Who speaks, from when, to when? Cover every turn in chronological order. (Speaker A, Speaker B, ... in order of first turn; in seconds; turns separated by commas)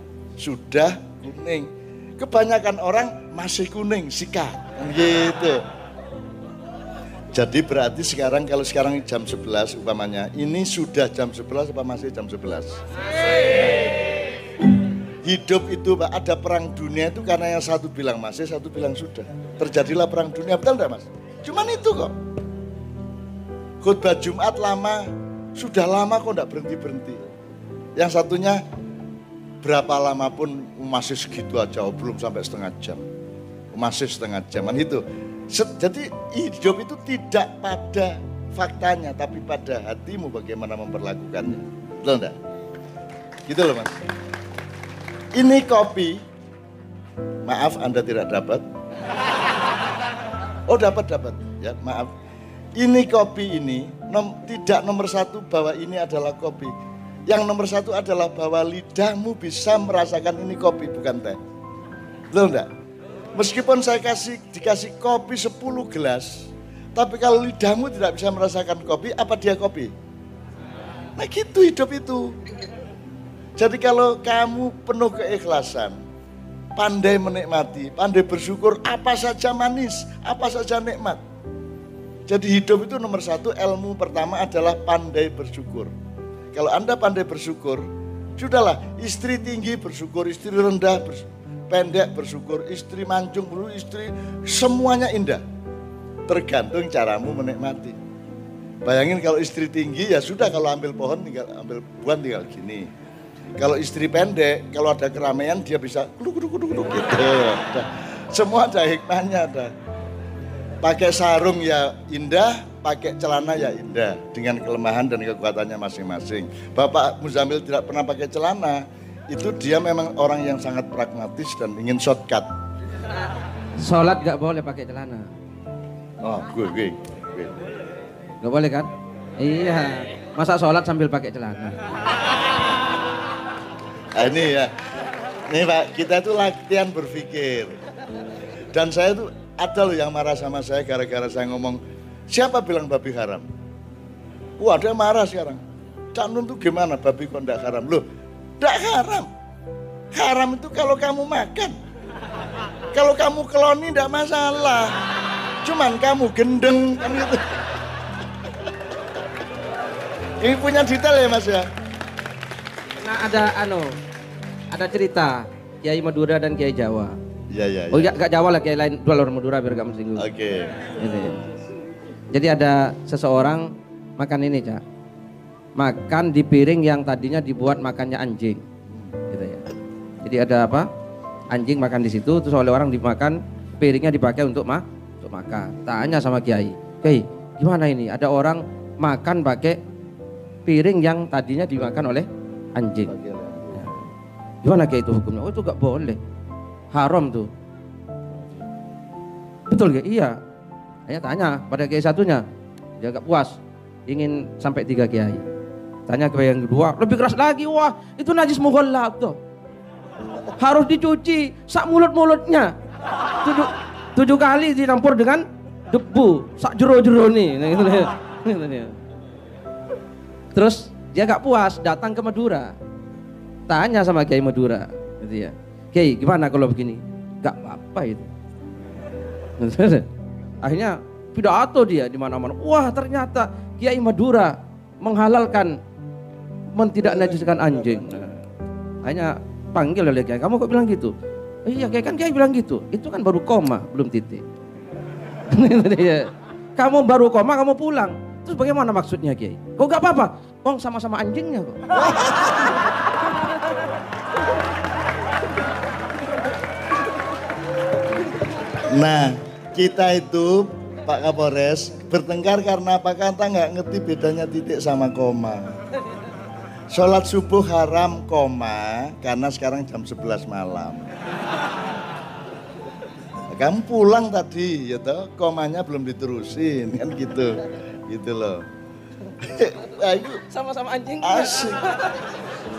Speaker A: 0.4-5.6, Speaker A: 7.3-12.8, Speaker A: 15.2-22.1, Speaker A: 23.8-27.3, Speaker A: 28.0-28.6, Speaker A: 29.6-33.0, Speaker A: 33.7-42.4, Speaker A: 43.5-44.0, Speaker A: 45.4-46.2, Speaker A: 47.5-48.6, Speaker A: 50.7-52.1, Speaker A: 52.8-56.7, Speaker A: 57.3-61.4, Speaker A: 62.3-62.7, Speaker A: 63.4-69.9, Speaker A: 71.2-72.4, Speaker A: 73.6-75.9, Speaker A: 76.8-81.2, Speaker A: 82.3-85.9, Speaker A: 86.5-87.8, Speaker A: 88.4-95.4, Speaker A: 96.3-98.0, Speaker A: 98.8-102.9, Speaker A: 103.6-109.7, Speaker A: 110.8-122.5, Speaker B: 123.8-125.3, Speaker A: 126.2-127.6, Speaker B: 128.4-131.8, Speaker A: 134.1-134.7, Speaker A: 135.5-137.8, Speaker A: 138.7-143.4, Speaker A: 144.6-145.6, Speaker A: 146.1-148.0, Speaker A: 148.6-149.3, Speaker A: 150.1-151.8, Speaker A: 152.9-154.9, Speaker A: 155.6-157.6, Speaker A: 160.4-161.7, Speaker B: 163.0-164.0, Speaker B: 164.7-167.2, Speaker A: 167.5-168.1, Speaker B: 167.9-170.3, Speaker A: 170.2-170.9, Speaker B: 170.9-171.4, Speaker B: 172.3-174.8, Speaker B: 175.8-178.6, Speaker B: 179.3-179.7, Speaker B: 180.2-180.9, Speaker B: 181.5-189.8, Speaker B: 190.7-193.2, Speaker A: 193.1-194.0, Speaker B: 194.6-196.2, Speaker B: 196.9-197.5, Speaker B: 199.7-200.4, Speaker B: 201.1-202.4, Speaker B: 203.0-205.5, Speaker B: 206.1-209.4, Speaker B: 210.6-212.7, Speaker B: 213.4-218.9, Speaker B: 220.5-222.8, Speaker B: 223.7-228.3, Speaker B: 229.6-230.1, Speaker B: 230.6-235.8, Speaker B: 236.7-238.4, Speaker A: 237.2-238.0, Speaker B: 239.0-241.1, Speaker B: 241.6-244.4, Speaker B: 245.5-252.7, Speaker A: 258.9-265.8, Speaker A: 266.9-271.1, Speaker A: 273.5-278.6, Speaker A: 279.4-280.4, Speaker B: 280.5-282.1, Speaker A: 281.2-281.8